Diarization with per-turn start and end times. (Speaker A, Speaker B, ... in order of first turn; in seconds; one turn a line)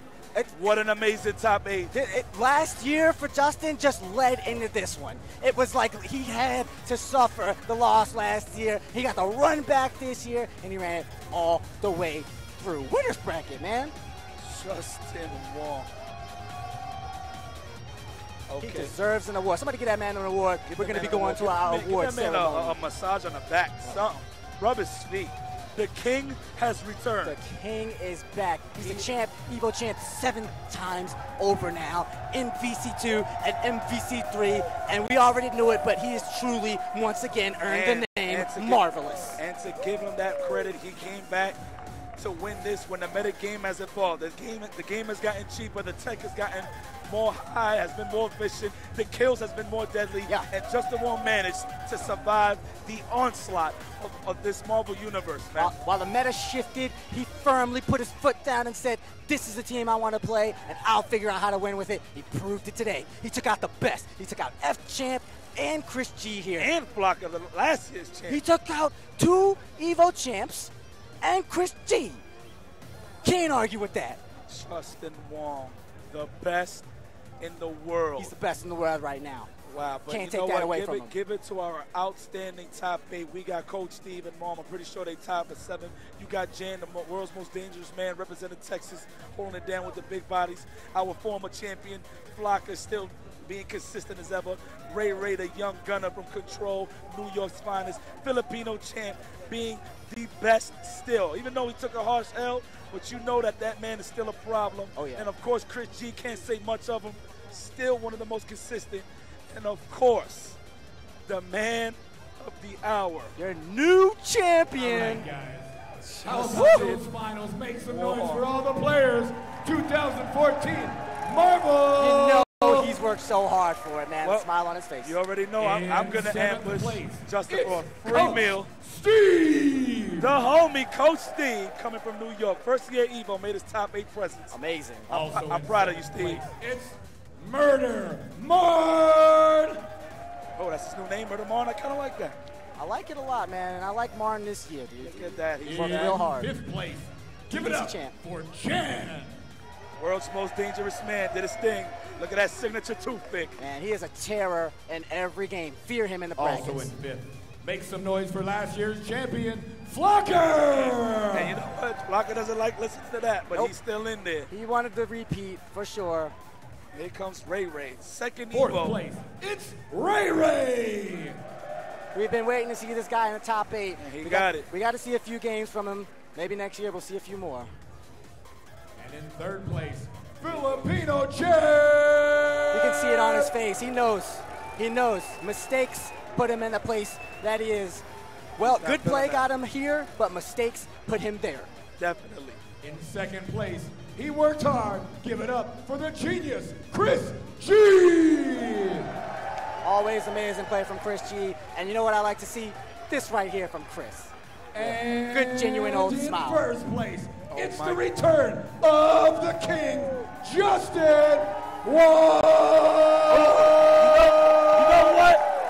Speaker A: 0.5-1.9
Speaker B: 1.9-13.9
Speaker A: 14.4-15.9
Speaker A: 18.5-18.9
Speaker B: 18.6-22.8
Speaker A: 20.7-27.4
Speaker B: 27.2-39.4
Speaker A: 28.8-29.1
Speaker A: 37.7-41.6
Speaker A: 42.2-55.7
Speaker B: 55.6-66.7
Speaker A: 66.6-68.4
Speaker B: 68.3-72.2
Speaker B: 73.2-74.2
Speaker A: 74.5-76.8
Speaker A: 77.4-78.3
Speaker B: 78.2-79.5
Speaker A: 79.7-110.6
Speaker B: 80.1-81.1
Speaker B: 104.9-105.3
Speaker A: 111.3-113.3
Speaker B: 113.3-115.2
Speaker C: 114.8-123.0
Speaker A: 116.2-117.0
Speaker B: 116.3-116.9
Speaker A: 117.9-118.4
Speaker B: 122.0-125.1
Speaker A: 124.2-124.5
Speaker A: 125.0-128.7
Speaker C: 125.6-130.3
Speaker A: 130.2-134.5
Speaker B: 134.5-135.1
Speaker A: 135.1-136.4
Speaker C: 135.1-139.8
Speaker A: 140.6-142.4
Speaker B: 142.8-146.5
Speaker A: 145.0-146.2
Speaker C: 145.6-149.3
Speaker B: 147.5-148.1
Speaker A: 150.0-153.6
Speaker B: 153.6-156.9
Speaker C: 156.4-161.6
Speaker A: 161.3-164.5
Speaker B: 164.5-166.3
Speaker A: 166.9-169.0
Speaker C: 168.5-171.4
Speaker B: 172.1-177.7
Speaker A: 174.0-174.7
Speaker C: 179.0-183.5
Speaker B: 182.7-188.0
Speaker B: 188.6-191.7
Speaker A: 188.6-189.5
Speaker A: 192.0-192.6
Speaker C: 192.8-199.1
Speaker B: 199.8-204.3
Speaker C: 204.7-215.3
Speaker B: 204.8-206.6
Speaker A: 207.5-208.0
Speaker A: 213.3-215.4